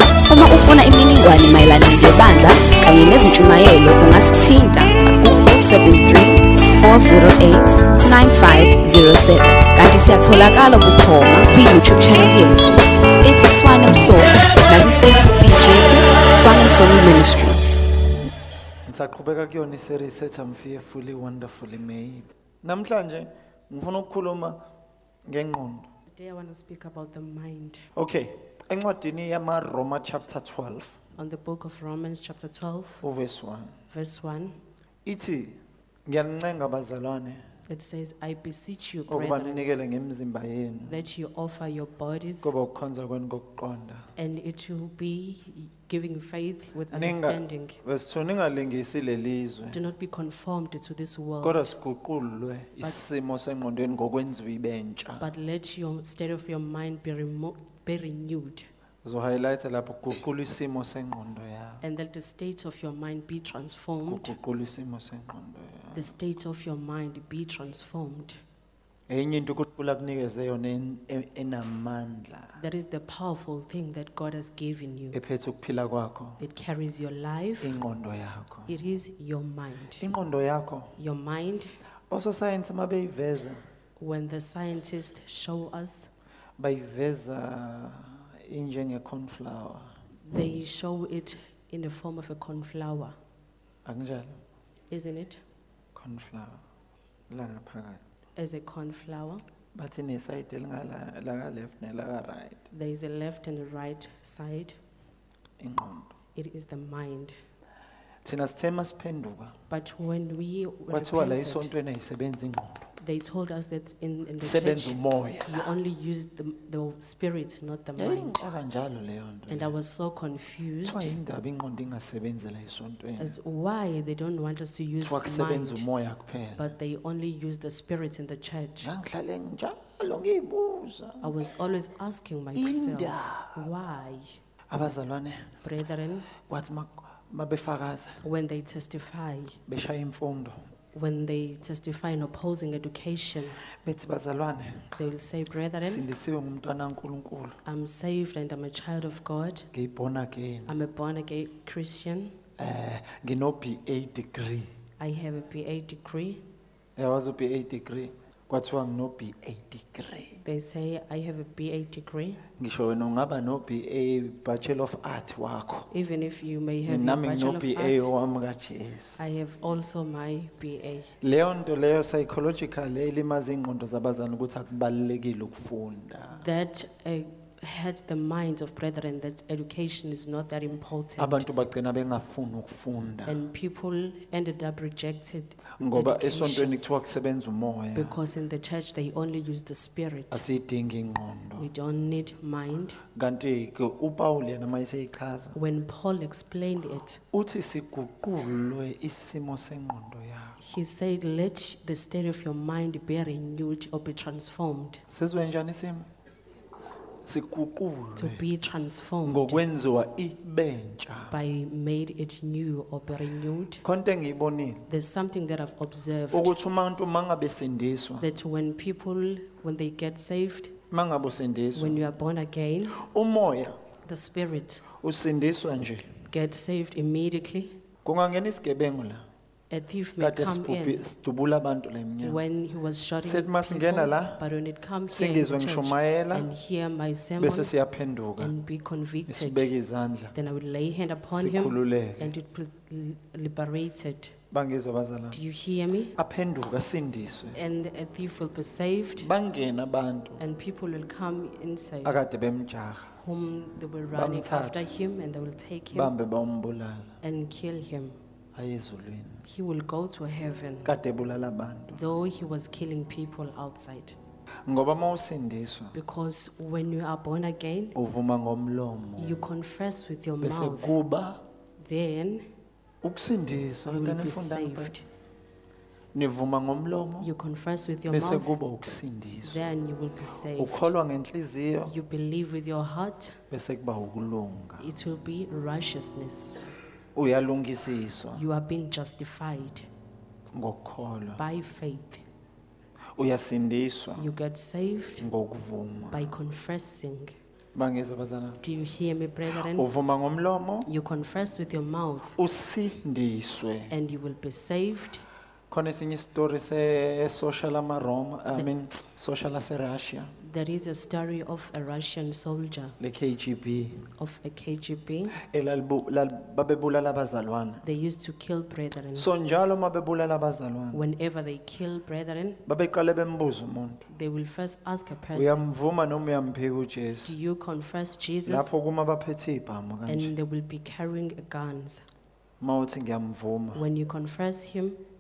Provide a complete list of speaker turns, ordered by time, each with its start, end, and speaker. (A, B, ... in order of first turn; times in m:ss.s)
0:00.3-0:17.8 A
0:18.9-0:24.6 B
0:25.3-0:25.9 B
0:26.1-0:27.8 C
0:27.9-0:31.0 B
0:31.2-0:33.0 C
0:33.0-0:33.7 B
0:33.9-0:34.6 C
0:35.0-0:37.4 B
0:37.7-0:39.7 C
0:39.1-0:41.0 B
0:40.8-0:42.5 C
0:42.4-0:44.0 B
0:44.2-0:47.8 C
0:46.9-0:49.8 B
0:49.7-0:51.7 C
0:51.4-0:55.3 B
0:52.8-0:53.1 C
0:55.2-0:58.7 C
0:59.0-1:01.8 B
1:01.8-1:04.3 C
1:04.1-1:06.1 B
1:05.9-1:08.4 C
1:09.1-1:12.6 B
1:12.6-1:15.2 C
1:15.1-1:16.4 B
1:16.4-1:17.8 C
1:17.6-1:18.7 B
1:18.7-1:20.1 C
1:20.0-1:20.9 B
1:21.0-1:21.7 C
1:22.1-1:23.6 B
1:24.0-1:26.1 C
1:26.6-1:29.9 B
1:30.3-1:33.1 C
1:33.8-1:34.4 B
1:34.9-1:35.4 C
1:35.9-1:36.6 B
1:37.3-1:38.0 B
1:38.4-1:39.4 C
1:39.7-1:42.6 B
1:42.7-1:44.8 C
1:45.6-1:46.1 B
1:46.3-1:47.4 C
1:48.2-1:49.6 B
1:49.7-1:51.7 C
1:50.9-1:52.9 B
1:53.0-1:58.4 C
1:54.4-1:55.7 B
1:58.0-1:59.7 B
1:59.5-2:01.2 C
2:00.8-2:03.4 B
2:03.2-2:05.8 C
2:05.0-2:06.7 B
2:06.6-2:08.9 C
2:08.8-2:11.3 B
2:11.2-2:14.4 C
2:12.5-2:13.6 B
2:14.7-2:15.5 B
2:15.6-2:16.3 C
2:16.4-2:18.2 B
2:18.2-2:19.6 C
2:19.7-2:20.6 B
2:20.9-2:23.6 C
2:23.8-2:24.9 B
2:25.0-2:26.0 C
2:25.8-2:27.6 B
2:27.6-2:29.7 C
2:29.7-2:30.8 B
2:30.7-2:32.3 C
2:32.6-2:34.7 B
2:35.0-2:36.4 C
2:37.0-2:40.3 B
2:40.3-2:42.4 C
2:42.6-2:45.9 B
2:45.9-2:48.1 C
2:46.8-2:49.2 B
2:49.2-2:51.1 C
2:51.2-2:56.4 B
2:56.3-3:01.5 C
3:01.2-3:03.4 B
3:03.2-3:06.8 C
3:05.8-3:08.2 B
3:07.9-3:10.4 C
3:10.3-3:11.7 B
3:11.6-3:13.0 C
3:13.1-3:15.6 B
3:15.5-3:17.2 C
3:17.3-3:20.6 B
3:20.6-3:25.0 C
3:25.1-3:26.1 B
3:27.2-3:28.4 B
3:28.2-3:29.6 C
3:29.2-3:31.3 B
3:31.3-3:33.8 C
3:33.8-3:34.9 B
3:34.9-3:36.5 C
3:36.3-3:38.3 B
3:38.2-3:40.7 C
3:40.9-3:42.0 B
3:41.7-3:43.0 C
3:42.9-3:43.8 B
3:44.1-3:44.8 C
3:44.9-3:46.1 B
3:46.3-3:47.8 C
3:48.0-3:49.2 B
3:49.7-3:51.0 C
3:50.2-3:52.4 B
3:52.2-3:57.7 C
3:53.2-3:54.4 B
3:55.1-3:56.5 B
3:57.4-3:58.5 B
3:58.4-3:59.7 C
3:59.3-4:00.3 B
4:00.3-4:04.3 C
4:01.3-4:02.3 B
4:04.5-4:05.4 B
4:05.3-4:06.1 C
4:06.2-4:07.6 B
4:07.5-4:09.3 C
4:09.2-4:10.4 B
4:10.4-4:12.2 C
4:12.0-4:13.1 B
4:13.2-4:16.1 C
4:14.1-4:14.9 B
4:15.9-4:17.1 B
4:17.2-4:18.2 C
4:18.5-4:19.4 B
4:19.4-4:20.9 C
4:20.8-4:22.0 B
4:21.9-4:24.2 C
4:24.6-4:25.9 B
4:25.9-4:28.0 C
4:27.9-4:29.4 B
4:29.2-4:31.0 C
4:30.4-4:31.4 B
4:31.8-4:32.5 C
4:33.0-4:35.0 B
4:33.9-4:35.0 C
4:36.1-4:37.3 B
4:37.2-4:38.6 C
4:38.1-4:39.6 B
4:39.4-4:40.9 C
4:40.6-4:41.9 B
4:41.9-4:43.4 C
4:43.5-4:44.8 B
4:44.8-4:46.6 C
4:47.1-4:48.4 B
4:48.3-4:49.9 C
4:50.5-4:51.4 B
4:51.4-4:52.2 C
4:53.1-4:54.3 B
4:54.2-4:55.3 C
4:55.2-4:56.4 B
4:56.1-4:57.3 C
4:57.7-4:58.6 B
4:58.6-4:59.9 C
4:59.6-5:00.9 B
5:00.8-5:02.4 C
5:02.4-5:03.9 B
5:03.9-5:05.2 C
5:05.7-5:10.3 B
5:10.4-5:13.0 C
5:13.0-5:14.0 B
5:14.2-5:15.4 C
5:15.4-5:17.8 B
5:17.8-5:19.3 C
5:19.2-5:21.0 B
5:20.9-5:22.6 C
5:22.7-5:24.0 B
5:24.1-5:25.6 C
5:25.3-5:27.3 B
5:27.2-5:28.7 C
5:28.4-5:30.3 B
5:30.1-5:32.0 C
5:32.6-5:33.9 B
5:33.7-5:35.0 C